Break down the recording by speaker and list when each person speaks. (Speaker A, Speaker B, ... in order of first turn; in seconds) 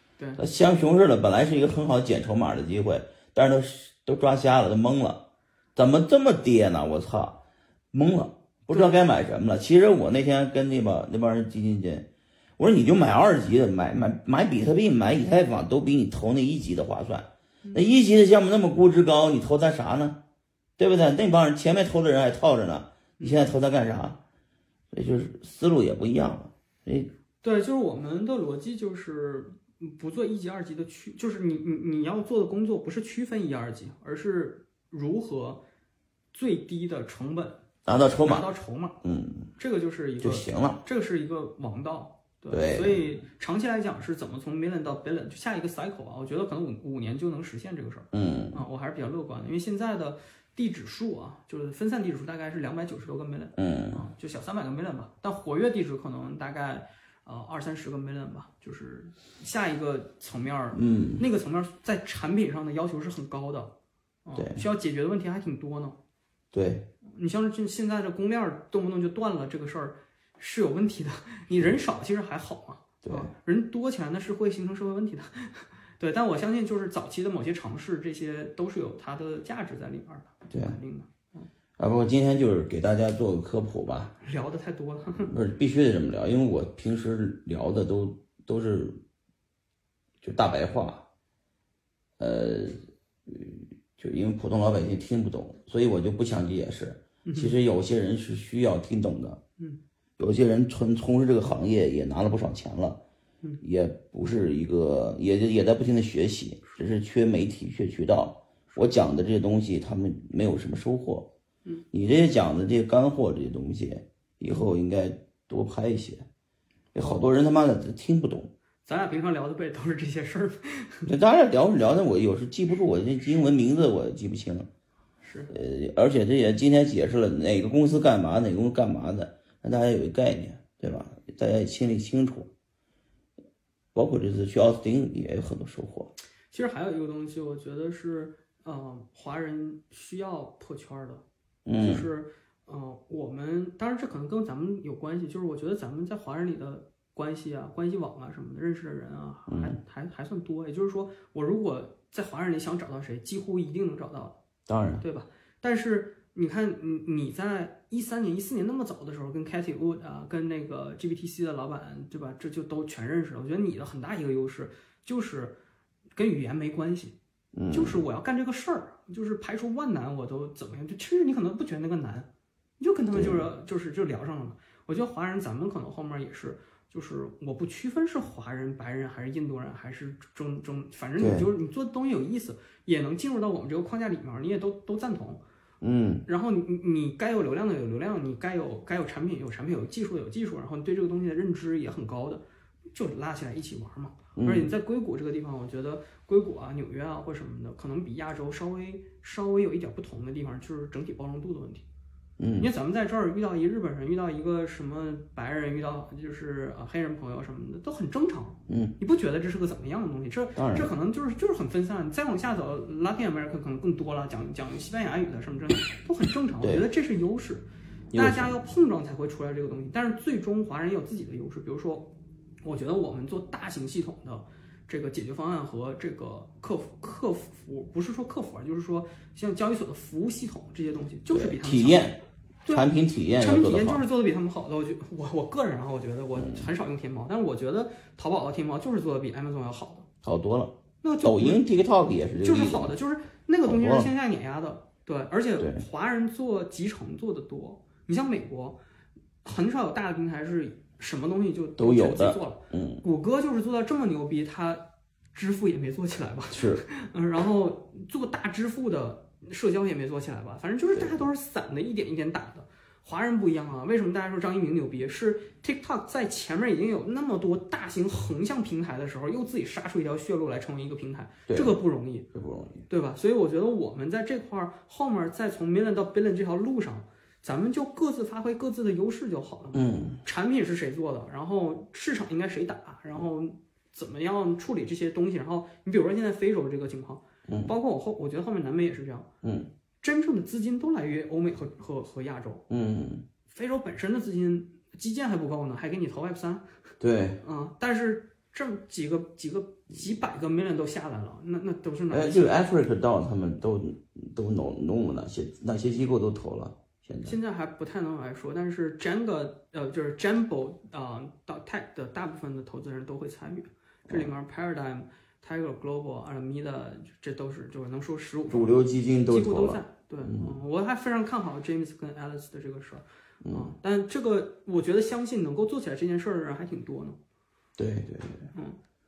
Speaker A: 0.4-5.2, 5.8-7.4, 7.9-12.1, 12.6-20.2, 20.8-24.2, 24.9-27.1, 37.9-38.5, 39.0-39.5, 40.2-40.8, 42.5-43.0, 48.1-48.6, 53.6-54.0, 60.8-61.2, 64.4-64.6, 66.5-66.9, 73.0-73.3, 80.5-80.8, 81.8-84.1, 85.2-89.0, 90.2-91.0, 92.2-99.4, 100.2-103.0, 103.6-111.3, 111.9-116.3, 116.9-118.5, 121.1-124.7, 125.5-132.5, 133.9-136.1, 141.7-142.1, 149.5-149.8, 154.7-155.0, 167.5-168.0, 173.1-173.5, 181.2-181.5, 185.8-186.2, 194.4-194.7, 202.4-202.7, 208.7-208.9, 210.6-210.9, 218.1-218.5, 231.3-234.1, 236.3-236.7, 240.2-242.9, 243.7-244.1, 245.6-245.8, 251.8-253.0, 256.5-256.8, 271.5-271.8, 272.3-272.9, 279.7-280.2, 287.5-287.7, 289.4-289.7, 292.7-293.3, 297.0-297.4, 302.1-307.4, 318.5-320.5, 323.4-323.7, 327.8-328.5
Speaker B: 8.7-9.0, 27.4-35.6, 36.3-37.6, 38.2-39.0, 39.6-63.7, 64.2-66.0, 67.0-81.5, 84.2-85.3, 97.2-97.5, 118.8-121.1, 125.2-125.5, 136.5-141.2, 141.8-154.4, 155.0-165.6, 166.2-167.2, 167.7-172.3, 172.8-185.4, 186.3-192.4, 192.9-201.8, 202.6-222.1, 222.6-232.1, 233.4-240.1, 241.0-241.6, 242.4-248.8, 249.4-272.3, 272.9-289.3, 290.0-292.6, 293.5-296.8, 297.4-302.5, 307.2-327.2